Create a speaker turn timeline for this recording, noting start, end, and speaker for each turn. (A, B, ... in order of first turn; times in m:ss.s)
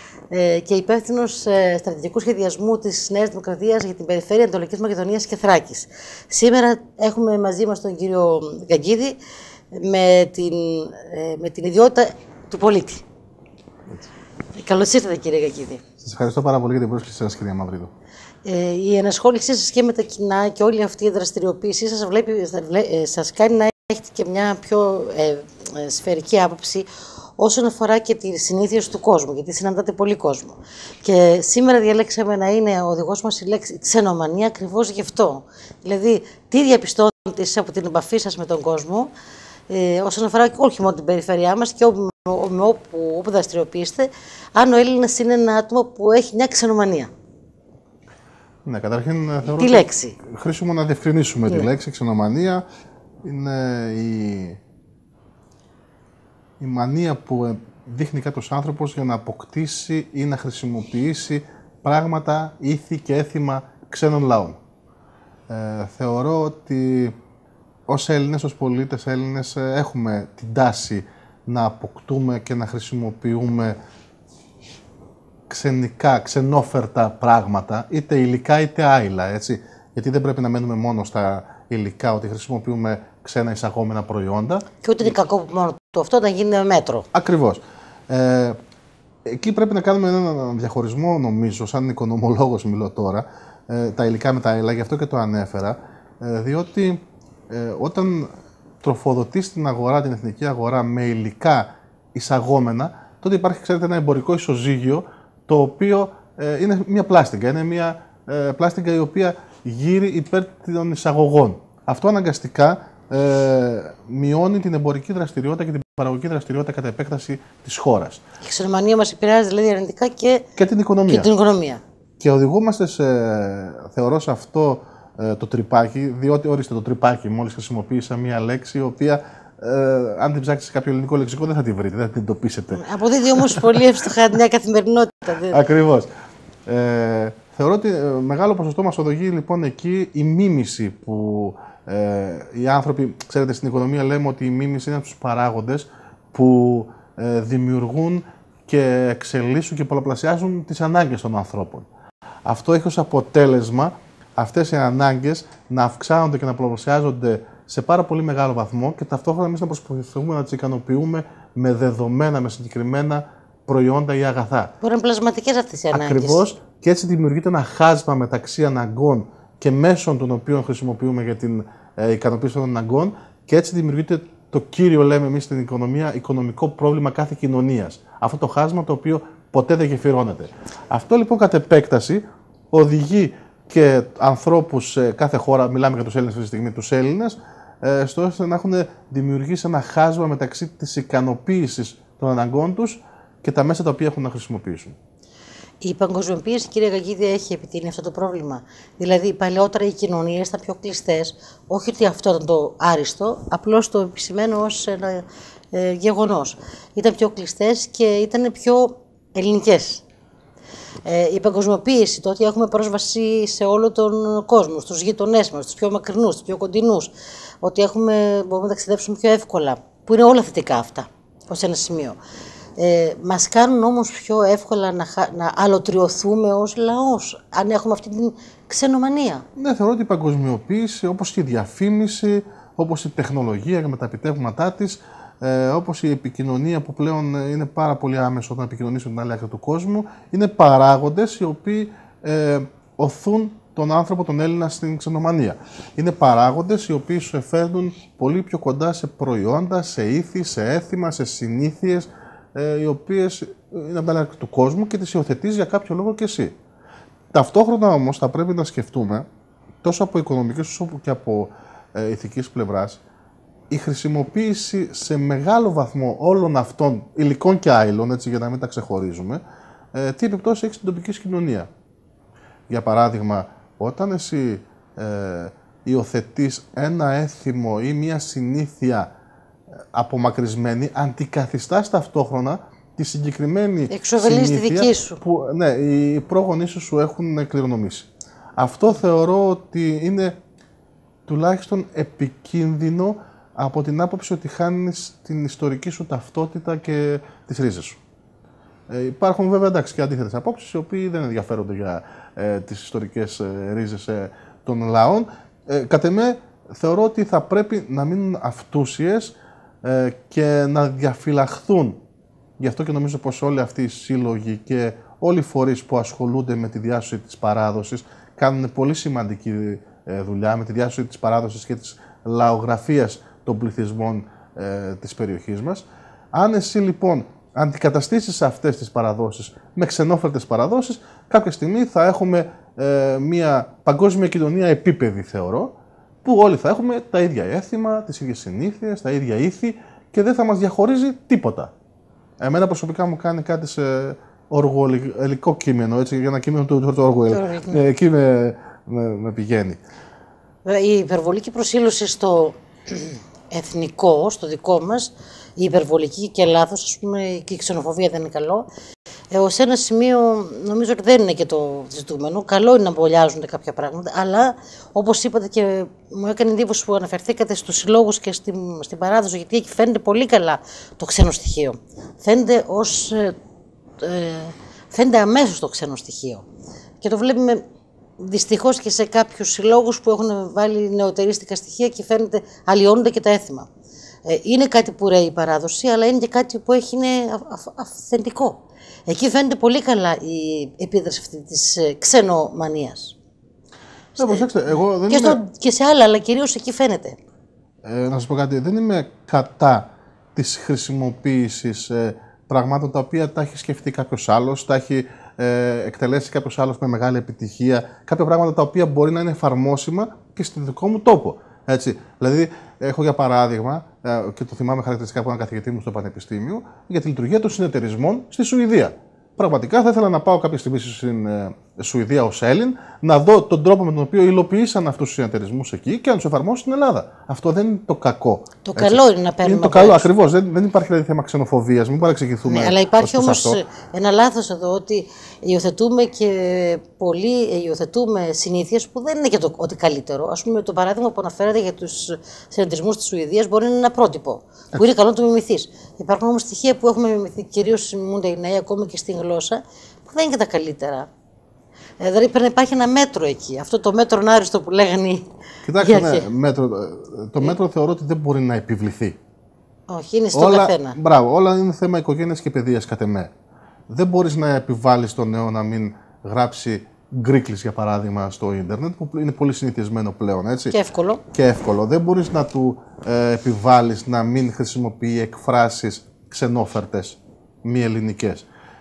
0:00.3-0:09.2 A
0:09.7-0:13.0 A
0:14.6-0:15.8 A
0:16.0-0:17.9 B
0:18.4-0:39.1 A
0:39.7-0:47.1 A
0:48.6-0:52.6 B
0:49.4-0:50.2 A
0:53.2-0:54.6 B
0:56.6-1:04.6 B
1:05.5-1:07.2 B
1:07.9-1:13.8 B
1:15.5-1:24.6 B
1:24.8-1:27.1 A
1:27.1-1:28.6 B
1:29.3-1:58.2 B
1:58.4-2:00.5 A
2:00.6-2:01.3 B
2:01.1-2:01.8 A
2:02.2-2:12.8 B
2:12.7-2:15.6 A
2:13.4-2:13.8 B
2:15.5-2:16.1 B
2:16.7-2:31.9 B
2:32.5-2:44.7 B
2:44.8-2:46.4 A
2:45.9-3:15.0 B
3:15.8-3:30.0 A
3:31.0-3:42.2 A
3:42.8-3:49.4 A
3:49.6-4:16.5 B
4:17.3-4:19.3 B
4:19.8-4:23.0 B
4:23.7-4:29.4 B
4:29.9-4:31.7 B
4:32.7-4:39.1 B
4:39.9-4:50.4 B
4:43.9-4:45.2 A
4:51.3-4:58.0 B
4:58.9-5:12.0 B
5:12.6-5:35.7 B
5:36.2-5:41.7 B
5:42.4-5:49.8 B
5:47.3-5:47.8 A
5:50.6-5:58.7 A
5:59.3-6:13.4 A
6:14.0-6:16.4 A
6:17.0-6:17.6 A
6:18.2-6:23.7 A
6:24.3-6:33.2 A
6:34.2-6:35.4 B
6:34.2-6:34.5 A
6:35.1-6:37.2 A
6:37.8-7:13.6 B
7:08.7-7:10.1 A
7:12.4-7:31.1 A
7:32.0-7:36.3 A
7:35.7-7:39.2 B
7:39.9-7:41.0 A
7:40.3-7:43.3 B
7:43.9-7:50.8 B
7:50.7-7:51.2 A
7:51.3-7:58.5 B